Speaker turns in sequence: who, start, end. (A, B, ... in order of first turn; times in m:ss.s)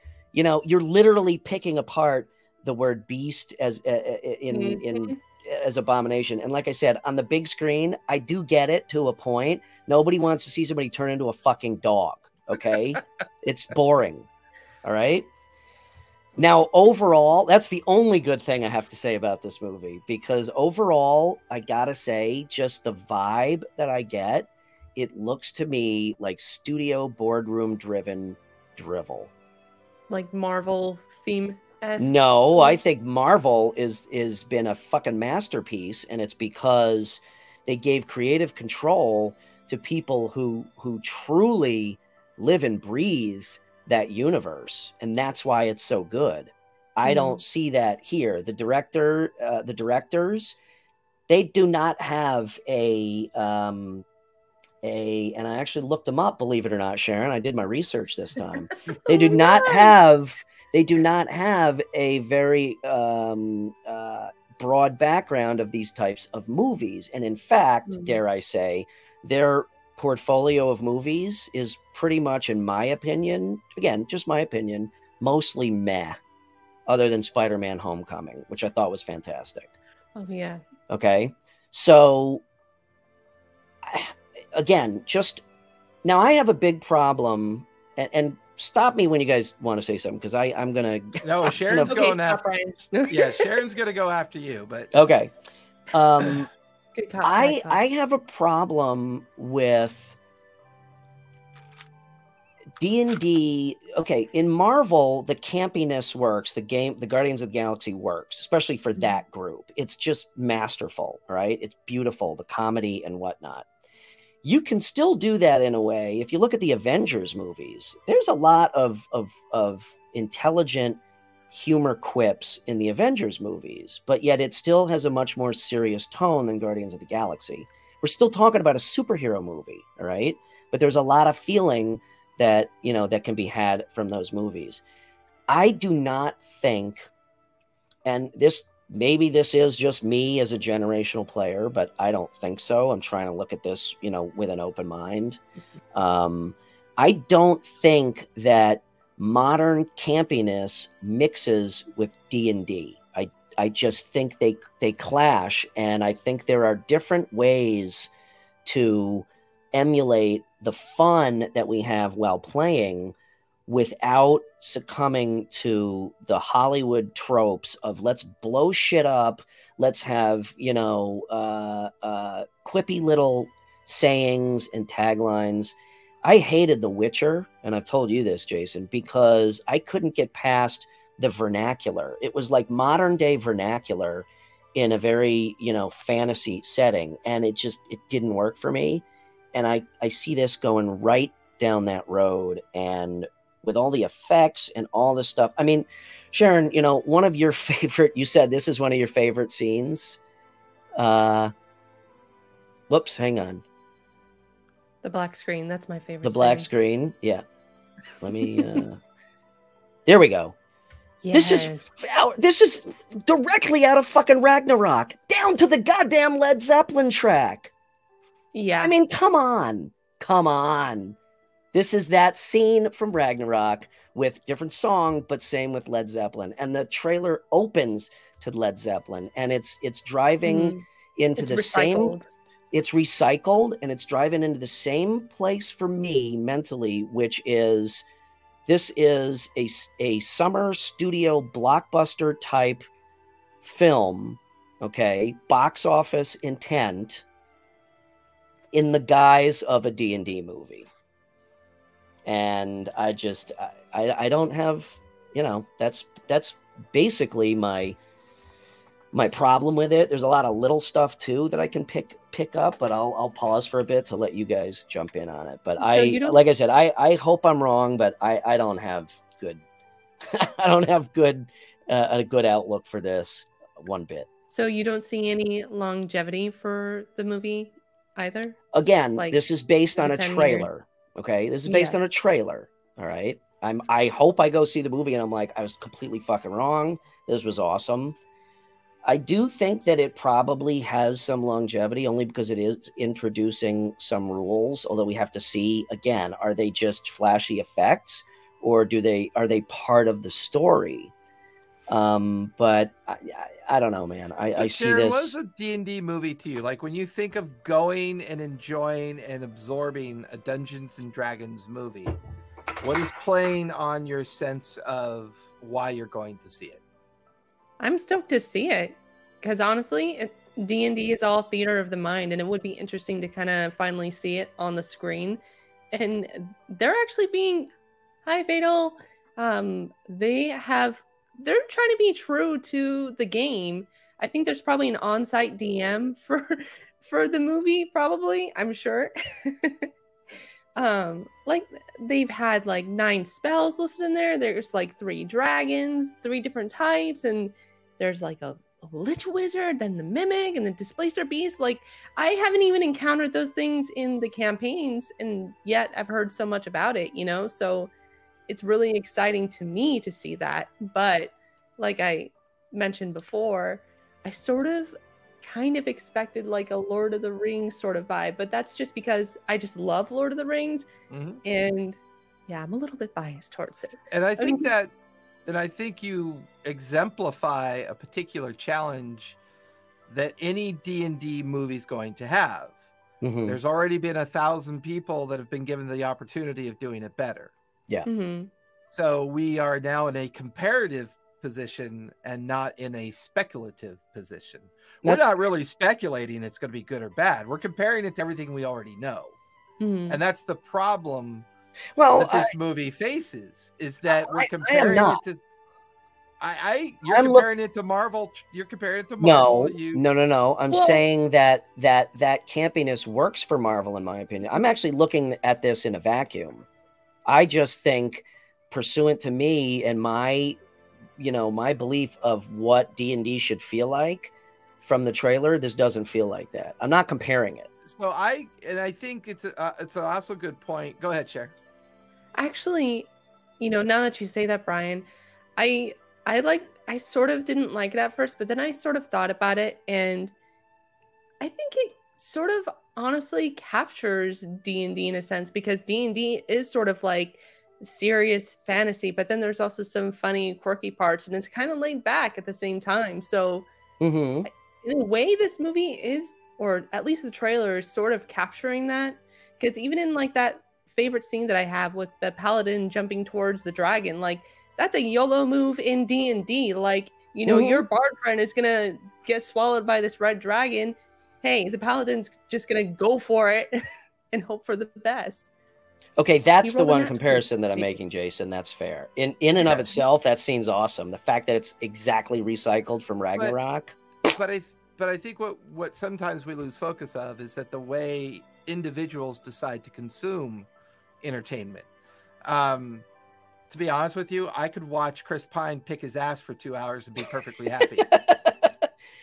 0:00.3-0:14.3 A
0:04.5-0:05.2 B
0:14.8-0:15.3 A
0:16.4-0:29.3 A
0:30.1-0:32.8 B
0:32.0-0:50.6 A
0:47.0-0:47.4 B
0:51.3-0:54.0 A
0:54.8-1:16.2 A
0:59.1-0:59.9 B
1:07.9-1:08.1 B
1:16.9-1:19.7 A
1:20.2-1:20.6 B
1:20.9-1:22.4 A
1:23.8-1:25.4 A
1:26.0-1:32.0 A
1:31.2-1:32.4 C
1:31.8-1:33.5 B
1:33.1-1:34.9 C
1:34.9-1:35.3 A
1:35.9-1:36.5 A
1:36.9-1:37.8 B
1:37.2-1:40.2 A
1:42.8-1:53.6 A
1:54.4-2:01.0 A
2:01.5-2:14.8 A
2:15.5-2:17.1 A
2:18.0-2:25.4 A
2:25.9-2:38.1 A
2:38.6-2:43.1 A
2:43.7-3:20.2 A
3:21.0-3:21.5 A
3:22.9-3:23.6 A
3:25.0-3:26.7 B
3:26.2-3:27.4 A
3:28.2-3:29.0 A
3:28.4-3:28.8 B
3:30.0-3:30.6 A
3:31.2-3:31.9 B
3:31.3-3:37.7 A
3:38.5-3:38.9 B
3:38.8-3:41.2 A
3:41.7-3:52.1 A
3:50.4-3:50.8 B
3:51.4-3:52.2 B
3:52.7-3:58.0 A
3:58.7-4:02.9 A
4:03.6-4:07.2 A
4:08.7-4:10.9 A
4:12.2-4:18.0 A
4:19.1-4:29.6 A
4:25.8-4:26.4 B
4:30.2-4:34.3 A
4:34.5-4:38.6 B
4:38.7-4:48.2 A
4:39.2-4:39.4 B
4:40.0-4:40.7 B
4:41.7-4:42.1 B
4:49.0-5:01.1 A
5:01.9-5:05.4 A
5:04.5-5:12.2 C
5:12.8-5:16.8 C
5:17.8-5:25.4 B
5:25.9-5:27.7 B
5:28.2-5:39.9 B
5:40.8-5:57.9 B
5:58.5-6:10.9 B
6:11.1-6:11.4 C
6:11.4-6:14.7 B
6:14.1-6:14.9 C
6:15.4-6:19.4 C
6:20.1-6:22.8 C
6:23.2-6:23.6 A
6:23.4-6:27.5 C
6:28.0-6:28.5 B
6:28.9-6:39.3 C
6:35.0-6:35.3 A
6:39.8-6:40.2 B
6:40.1-6:41.5 C
6:42.0-6:42.5 A
6:42.2-6:45.4 C
6:44.2-6:45.2 A
6:46.4-6:50.0 C
6:47.0-6:47.5 A
6:49.2-6:56.6 A
6:50.7-6:51.0 B
6:57.2-7:00.6 A
7:01.2-7:07.7 A
7:07.8-7:11.5 C
7:12.3-7:13.1 B
7:13.6-7:20.3 B
7:21.4-7:33.6 B
7:34.0-7:34.5 A
7:34.4-7:53.8 B
7:47.4-7:47.8 A
7:54.3-7:55.5 B
7:56.2-8:04.0 A
7:56.6-7:57.9 B
8:04.2-8:10.7 C
8:11.2-8:11.9 C
8:12.4-8:13.0 C
8:13.7-8:18.1 C
8:18.0-8:18.9 A